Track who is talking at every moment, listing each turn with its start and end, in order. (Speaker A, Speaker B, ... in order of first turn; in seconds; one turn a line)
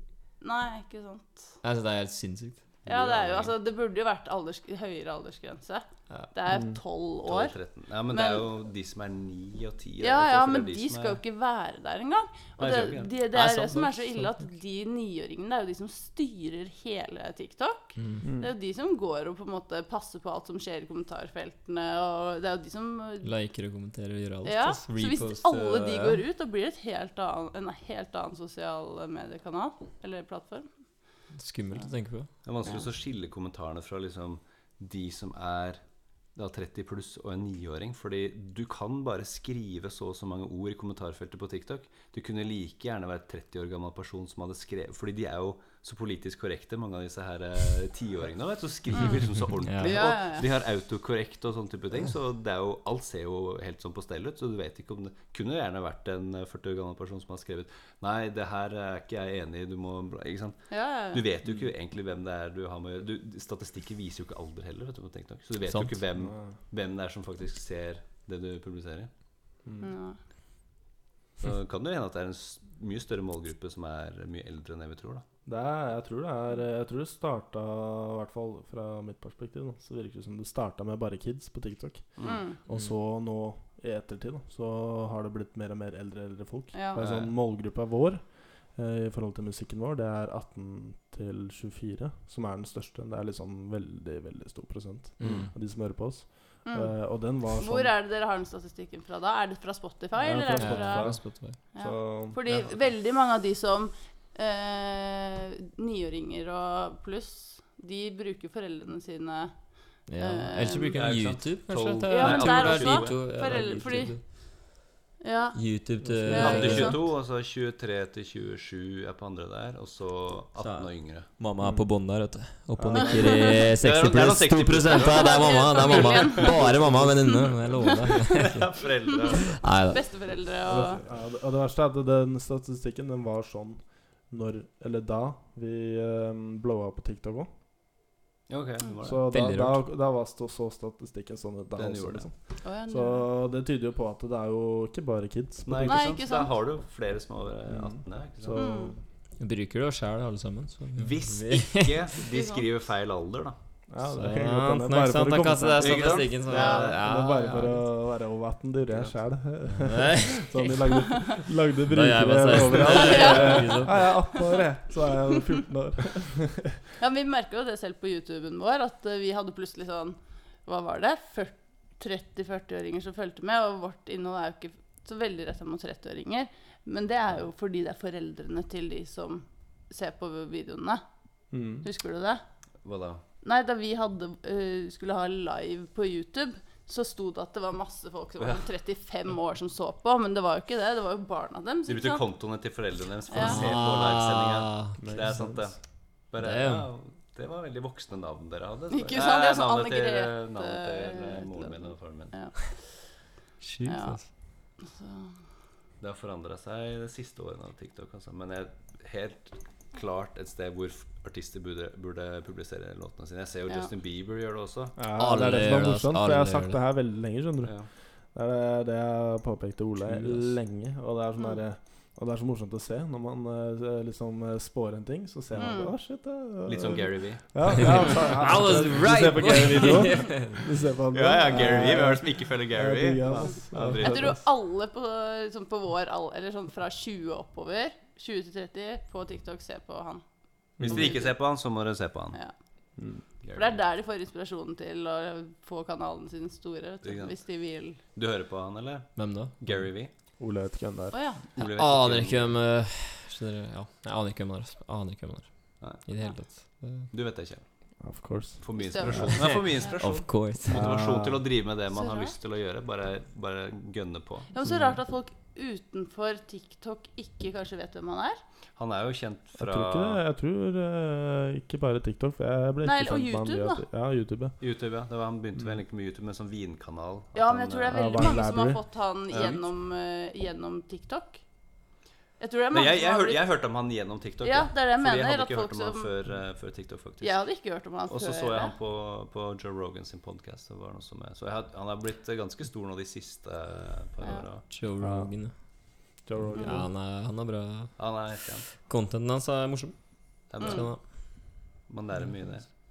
Speaker A: 0.4-1.5
Speaker B: 1.6-2.6
Speaker C: 2.8-3.5
Speaker A: 2.9-7.5
Speaker D: 6.5-6.8
Speaker C: 7.2-11.2
Speaker A: 8.1-8.4
Speaker A: 10.0-23.3
Speaker C: 12.6-13.1
Speaker B: 13.3-14.3
Speaker B: 18.0-18.2
Speaker D: 18.2-18.5
Speaker B: 23.2-26.2
Speaker A: 24.4-30.7
Speaker B: 31.3-32.3
Speaker C: 32.4-35.8
Speaker C: 36.4-69.1
Speaker A: 48.9-49.2
Speaker B: 49.6-50.0
Speaker A: 49.8-50.5
Speaker A: 60.7-61.2
Speaker B: 65.7-65.9
Speaker D: 66.2-66.5
Speaker D: 69.6-69.9
Speaker A: 69.8-70.2
Speaker C: 71.4-75.2
Speaker D: 75.5-97.9
Speaker C: 82.2-82.4
Speaker A: 82.2-82.6
Speaker A: 86.7-87.0
Speaker C: 87.0-87.3
Speaker B: 95.2-95.5
Speaker C: 95.2-95.5
Speaker A: 96.6-96.9
Speaker A: 97.6-101.1
Speaker D: 100.2-102.4
Speaker B: 100.5-101.6
Speaker A: 101.7-111.0
Speaker B: 110.1-114.2
Speaker C: 110.9-113.6
Speaker A: 112.1-114.2
Speaker A: 115.2-115.6
Speaker B: 115.5-117.0
Speaker D: 116.0-116.9
Speaker A: 116.3-117.0
Speaker C: 116.3-121.3
Speaker B: 120.6-128.7
Speaker D: 121.6-121.9
Speaker D: 122.7-123.6
Speaker A: 123.2-123.5
Speaker C: 123.5-129.6
Speaker A: 124.9-127.7
Speaker A: 129.2-131.0
Speaker B: 129.6-130.0
Speaker D: 130.6-137.5
Speaker C: 138.5-139.2
Speaker D: 139.0-142.3
Speaker B: 139.3-139.8
Speaker C: 141.8-142.2
Speaker A: 142.6-143.2
Speaker D: 142.9-146.1
Speaker C: 145.6-148.7
Speaker A: 145.8-146.6
Speaker D: 147.7-149.0
Speaker A: 148.5-148.9
Speaker B: 149.4-152.0
Speaker C: 150.9-153.5
Speaker A: 152.2-152.7
Speaker D: 153.9-166.8
Speaker B: 154.1-157.8
Speaker C: 155.8-157.0
Speaker A: 156.5-157.0
Speaker B: 159.7-161.1
Speaker B: 161.9-164.2
Speaker A: 162.8-164.5
Speaker A: 167.0-181.0
Speaker D: 181.5-181.8
Speaker A: 181.8-182.4
Speaker C: 182.8-183.2
Speaker A: 183.4-192.2
Speaker C: 188.4-188.6
Speaker C: 191.9-195.8
Speaker A: 193.3-193.7
Speaker B: 193.3-195.0
Speaker D: 195.0-195.7
Speaker C: 196.3-202.5
Speaker B: 196.4-196.9
Speaker A: 198.9-202.7
Speaker B: 203.6-204.2
Speaker A: 203.8-204.2
Speaker A: 204.8-205.3
Speaker C: 206.0-214.9
Speaker D: 215.0-234.4
Speaker B: 215.2-216.8
Speaker C: 217.6-217.9
Speaker C: 220.1-220.5
Speaker A: 225.6-225.9
Speaker C: 226.6-228.0
Speaker B: 227.7-230.6
Speaker C: 231.1-234.3
Speaker A: 234.0-240.2
Speaker D: 240.8-241.2
Speaker A: 240.8-241.3
Speaker C: 240.8-242.4
Speaker D: 243.0-243.2
Speaker C: 243.4-243.8
Speaker A: 243.5-248.0
Speaker C: 247.0-247.4
Speaker C: 248.1-250.1
Speaker B: 249.2-249.5
Speaker D: 250.4-251.2
Speaker A: 251.1-251.4
Speaker C: 251.6-252.5
Speaker B: 251.6-257.1
Speaker C: 257.1-257.6
Speaker D: 258.0-259.3
Speaker C: 258.6-264.5
Speaker A: 258.8-259.9
Speaker B: 259.4-260.9
Speaker D: 260.7-261.5
Speaker A: 261.9-262.3
Speaker A: 264.5-268.4
Speaker D: 264.6-264.9
Speaker C: 268.8-270.2
Speaker D: 269.6-274.5
Speaker A: 272.8-273.8
Speaker C: 274.6-278.3
Speaker A: 277.3-281.4
Speaker D: 277.9-278.8
Speaker C: 279.3-279.6
Speaker A: 282.4-283.4
Speaker C: 282.7-287.4
Speaker A: 284.4-286.1
Speaker A: 287.2-288.7
Speaker C: 288.1-294.7
Speaker B: 294.7-295.6
Speaker D: 295.0-295.3
Speaker D: 296.2-296.8
Speaker B: 296.4-298.0
Speaker A: 296.5-296.8
Speaker C: 298.0-298.7
Speaker B: 298.8-301.0
Speaker C: 300.5-300.9
Speaker A: 300.6-300.9
Speaker C: 301.9-302.7